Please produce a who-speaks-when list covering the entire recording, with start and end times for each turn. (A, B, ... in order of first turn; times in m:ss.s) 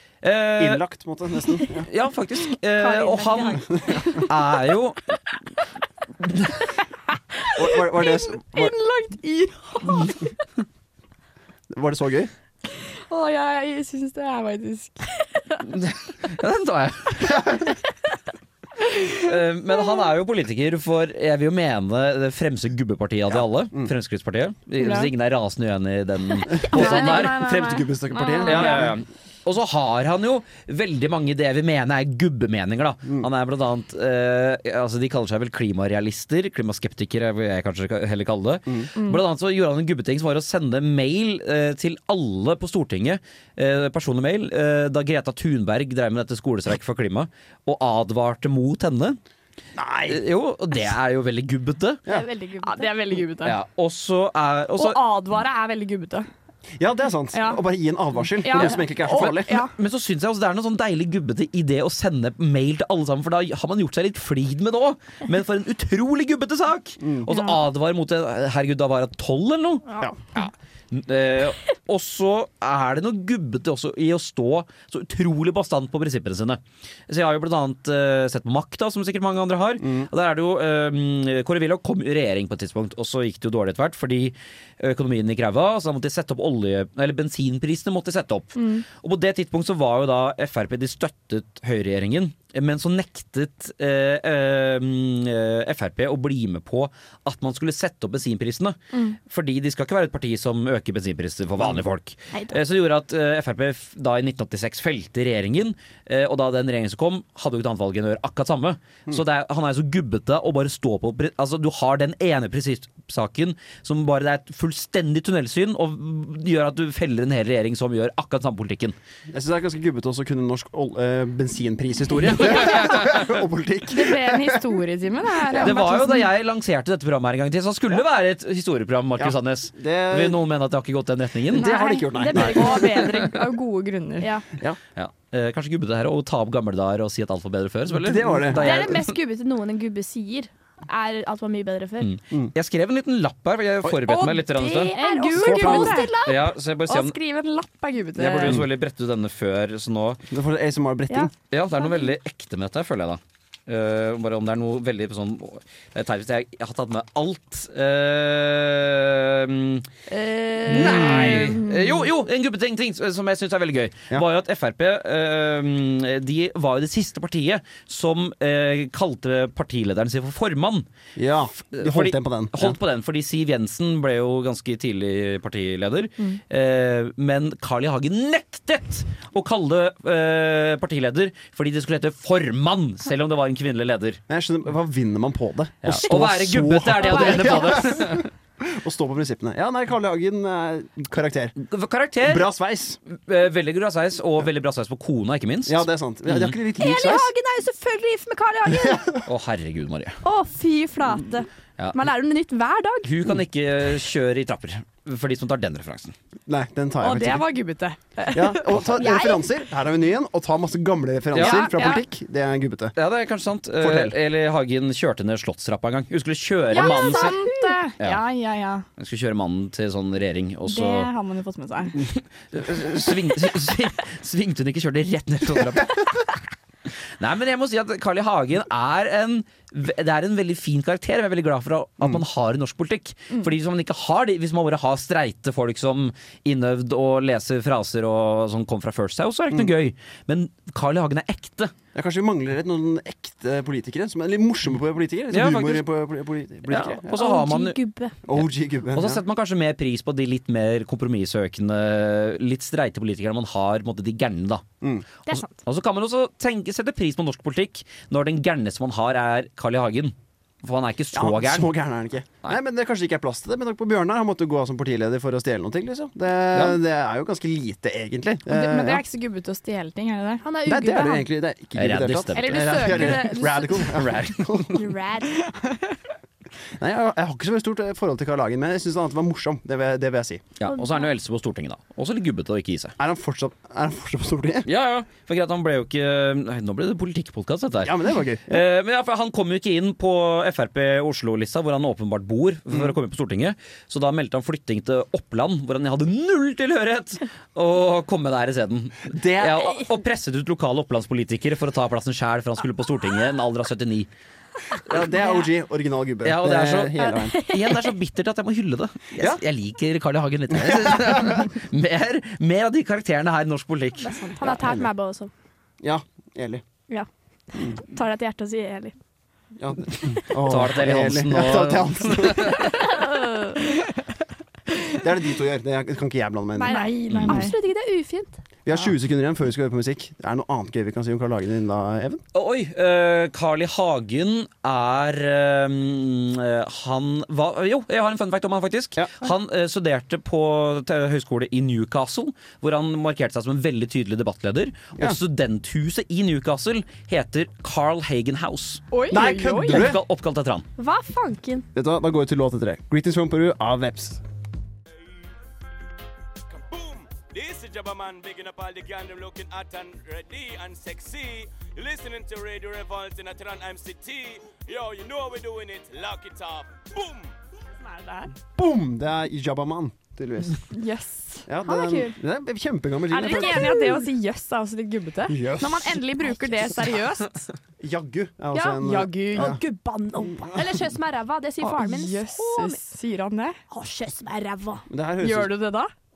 0:00.2-0:00.8 A
0:00.6-0:01.9 B
0:01.9-0:03.6 A
0:02.8-0:04.2 C
0:03.6-0:04.2 B
0:04.2-0:05.0 A
0:06.2-0:06.5 A
0:07.6-0:08.7 B
0:07.8-0:10.3 D
0:11.7-0:12.3 B
0:13.1-0:15.1 D
0:15.6-0:17.5 A
0:19.0-0:27.8 A
0:23.3-0:23.9 B
0:24.8-0:25.1 D
0:26.5-0:29.0 B
0:26.6-0:28.9 D
0:28.4-0:49.2 A
0:49.8-0:50.2 B
0:50.1-0:52.0 A
0:52.1-0:52.9 C
0:52.6-0:53.6 D
0:53.4-0:55.0 A
0:54.8-0:56.3 D
0:56.8-0:59.7 B
0:57.3-0:57.6 D
0:58.4-0:59.7 D
0:59.8-1:59.0 A
1:07.0-1:07.3 B
1:19.8-1:20.1 B
1:28.6-1:28.8 D
1:38.9-1:39.2 D
1:59.3-2:04.6 B
2:03.9-2:06.3 D
2:05.5-2:05.8 B
2:05.6-2:11.7 A
2:09.2-2:10.4 B
2:11.5-2:13.2 B
2:11.6-2:13.1 C
2:11.6-2:14.3 D
2:14.2-2:14.5 C
2:15.0-2:19.1 A
2:17.9-2:18.8 B
2:18.5-2:22.1 C
2:22.0-2:25.0 A
2:24.1-2:26.1 D
2:24.5-2:26.5 C
2:25.3-2:26.0 B
2:26.2-2:27.2 A
2:26.9-2:28.6 D
2:28.2-2:30.2 A
2:30.3-2:31.3 B
2:31.1-2:32.1 C
2:31.5-2:39.9 A
2:40.2-2:40.7 C
2:40.5-2:41.9 D
2:40.7-2:50.9 A
2:41.0-2:41.3 B
2:51.2-2:52.8 B
2:51.7-3:04.2 A
3:04.3-3:11.6 B
3:05.8-3:08.3 A
3:07.0-3:07.9 C
3:11.6-3:12.5 A
3:12.2-3:13.0 B
3:13.1-3:16.6 A
3:15.7-3:17.3 B
3:16.8-3:19.1 C
3:18.7-3:19.2 B
3:19.3-3:20.2 A
3:20.2-3:23.1 C
3:23.0-3:26.2 A
3:26.5-3:27.5 B
3:27.0-3:28.8 D
3:28.3-3:33.0 B
3:28.9-3:29.5 C
3:31.3-3:31.6 A
3:31.4-3:32.0 D
3:33.0-3:37.4 A
3:33.8-3:34.2 B
3:36.7-3:38.8 D
3:36.7-3:37.8 C
3:39.0-3:41.1 A
3:40.7-3:42.0 D
3:42.0-3:46.2 A
3:45.7-3:46.0 B
3:47.2-4:01.7 A
4:01.9-4:07.2 B
4:05.3-4:05.9 A
4:06.7-4:07.8 A
4:07.1-4:08.2 C
4:08.2-4:09.2 B
4:08.3-4:14.6 A
4:14.8-4:15.1 B
4:15.3-4:15.6 C
4:15.3-4:21.7 A
4:21.1-4:29.0 B
4:28.5-4:30.4 D
4:30.4-4:31.3 C
4:30.6-4:34.9 B
4:31.8-4:33.4 A
4:32.3-4:34.0 D
4:34.0-4:34.6 A
4:34.8-4:35.5 C
4:35.4-4:35.8 D
4:36.8-4:40.4 B
4:40.6-4:43.0 A
4:40.7-4:41.1 C
4:43.0-4:44.7 B
4:44.7-4:48.0 A
4:47.8-4:48.6 B
4:48.5-5:04.1 A
4:59.1-4:59.8 B
5:04.8-5:07.4 B
5:06.2-5:14.2 A
5:07.0-5:07.9 C
5:10.5-5:11.5 B
5:14.0-5:15.3 C
5:14.4-5:14.9 B
5:15.8-5:16.6 B
5:16.9-5:19.0 C
5:19.6-5:22.8 B
5:20.4-5:22.6 A
5:22.7-5:23.7 C
5:25.0-5:26.8 B
5:26.6-5:28.3 C
5:26.6-5:27.6 D
5:28.7-5:32.2 B
5:32.3-5:48.8 A
5:39.0-5:39.3 B
5:48.9-5:49.9 D
5:49.1-5:50.0 B
5:49.7-5:50.7 A
5:50.8-5:51.7 C
5:51.7-5:54.2 B
5:56.5-6:07.3 E
6:07.8-6:08.4 D
6:08.6-6:10.6 B
6:10.7-6:11.5 D
6:11.5-6:13.8 B
6:11.6-6:12.2 C
6:13.1-6:17.5 D
6:13.2-6:14.1 C
6:15.3-6:17.0 B
6:17.8-6:19.6 B
6:18.5-6:22.8 C
6:18.8-6:19.6 D
6:21.6-6:23.6 D
6:23.7-6:24.8 C
6:24.9-6:25.6 B
6:25.2-6:25.9 D